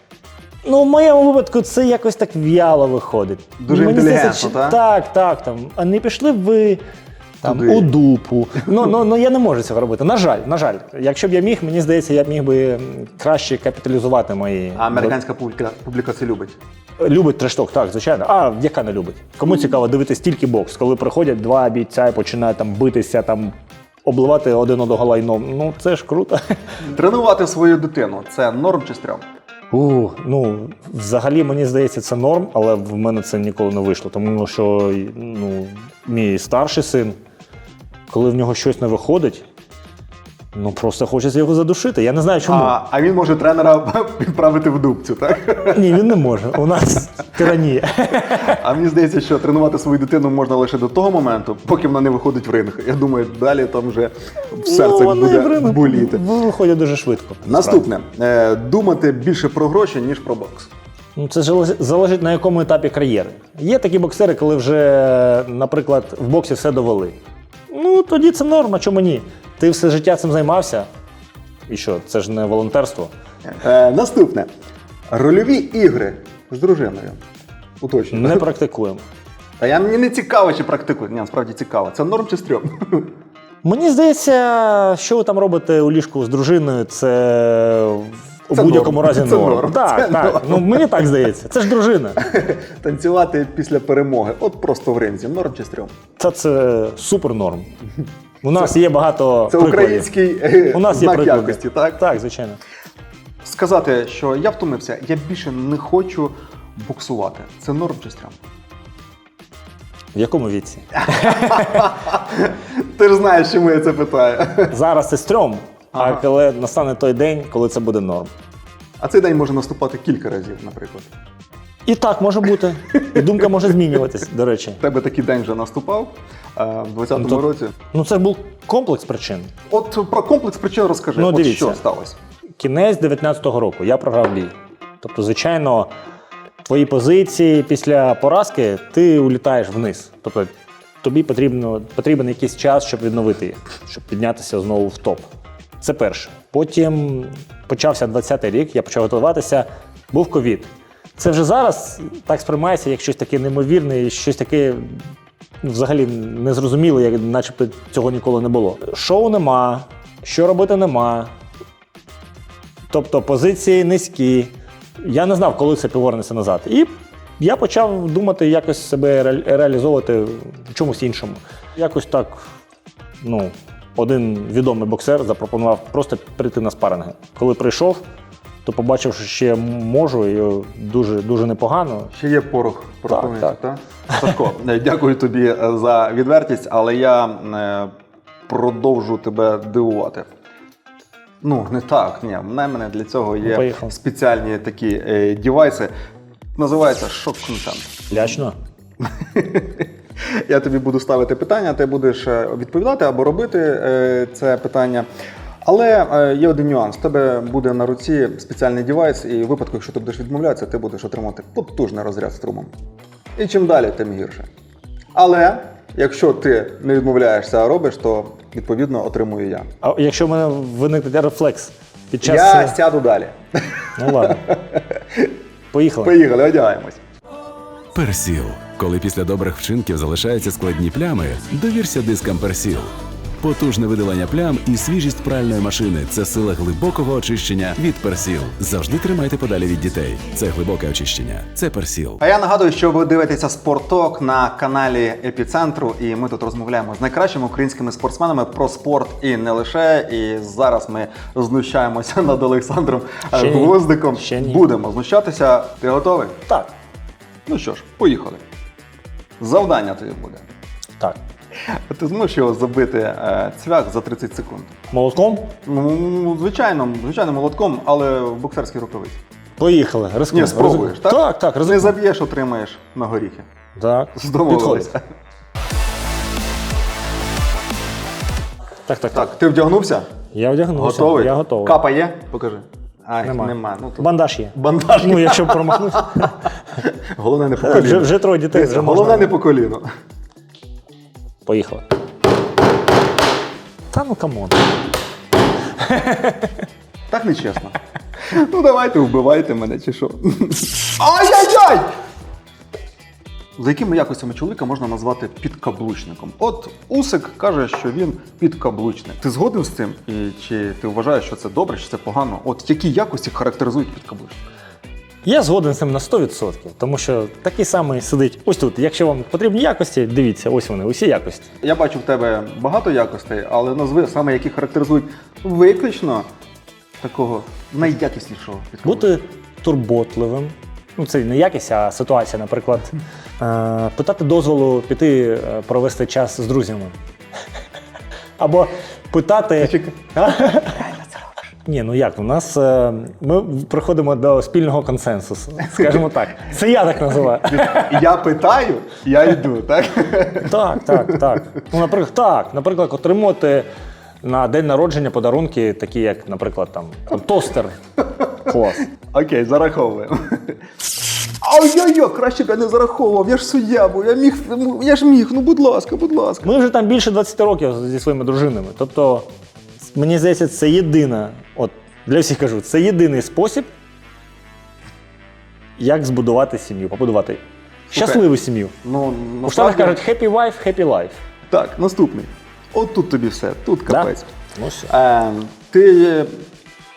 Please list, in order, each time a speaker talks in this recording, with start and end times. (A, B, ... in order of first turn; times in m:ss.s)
0:00.6-0:06.8 A
0:03.6-0:04.8 B
0:07.4-0:07.9 B
0:07.4-0:15.2 A
0:14.8-0:16.6 B
0:17.0-0:23.5 A
0:24.0-0:26.8 A
0:26.8-0:29.2 B
0:29.7-0:37.2 A
0:38.1-0:39.5 A
0:40.5-0:42.8 A
0:42.5-0:45.8 B
0:45.7-0:48.6 A
0:48.3-0:56.2 B
0:54.6-0:57.8 A
0:57.4-1:00.7 B
1:01.2-1:07.2 A
1:07.7-1:10.9 A
1:11.7-1:13.1 A
1:13.5-1:14.5 B
1:15.1-1:17.2 B
1:17.8-1:18.5 B
1:18.1-1:19.0 A
1:19.6-1:23.2 B
1:23.6-1:32.3 A
1:28.5-1:31.1 B
1:32.2-1:35.9 B
1:36.2-1:37.7 A
1:38.4-1:40.1 A
1:39.5-1:42.0 B
1:40.7-1:42.6 A
1:43.4-1:48.4 B
1:50.2-1:51.9 A
1:51.0-1:54.8 B
1:54.7-1:58.3 A
1:55.9-1:56.2 B
1:59.0-2:01.1 B
2:01.9-2:04.8 A
2:03.1-2:03.5 B
2:04.8-2:07.7 B
2:07.2-2:09.5 A
2:09.7-2:12.2 B
2:11.2-2:11.8 A
2:12.6-2:15.9 A
2:16.7-2:25.2 A
2:25.8-2:35.1 A
2:35.6-2:41.3 A
2:42.9-2:52.5 A
2:53.2-2:58.0 A
2:58.6-3:02.1 A
3:02.1-3:07.9 B
3:03.1-3:03.5 A
3:08.5-3:10.3 B
3:11.4-3:15.9 B
3:13.4-3:13.9 A
3:16.5-3:18.4 B
3:18.1-3:18.6 A
3:19.0-3:25.1 B
3:25.6-3:32.7 B
3:33.4-3:34.5 B
3:35.1-3:39.7 B
3:39.8-3:42.8 A
3:42.2-3:45.3 B
3:44.0-3:44.5 A
3:45.7-3:46.1 A
3:46.0-3:47.0 B
3:47.9-4:02.2 C
4:02.2-4:16.4 B
4:13.3-4:14.6 A
4:17.5-4:18.4 B
4:19.4-4:20.5 B
4:21.6-4:24.7 B
4:24.9-4:25.5 A
4:25.6-4:29.2 B
4:29.6-4:32.0 A
4:30.3-4:33.5 B
4:33.8-4:34.9 A
4:34.1-4:35.0 B
4:38.9-4:39.4 A
4:39.1-4:40.1 B
4:40.3-4:41.8 A
4:40.8-4:49.9 B
4:43.2-4:46.5 A
4:47.6-4:49.3 A
4:51.5-4:51.8 A
4:53.9-4:54.7 A
4:55.8-4:56.6 A
4:57.1-5:01.9 B
5:03.6-5:14.5 B
5:15.2-5:21.5 A
5:21.6-5:26.3 B
5:27.0-5:29.2 B
5:28.8-5:36.9 A
5:38.4-5:40.9 A
5:39.6-5:39.9 B
5:40.5-5:41.1 B
5:41.6-5:48.0 A
5:45.6-5:46.1 B
5:47.4-5:51.4 B
5:50.4-5:53.7 A
5:54.2-5:57.8 A
5:58.3-5:58.9 A
5:59.0-6:00.6 B
6:01.4-6:06.5 B
6:06.4-6:09.3 A
6:09.8-6:13.7 A
6:15.8-6:18.7 A
6:17.9-6:18.2 B
6:18.8-6:20.0 B
6:19.4-6:21.2 A
6:21.5-6:24.3 B
6:23.9-6:24.9 A
6:24.9-6:26.4 B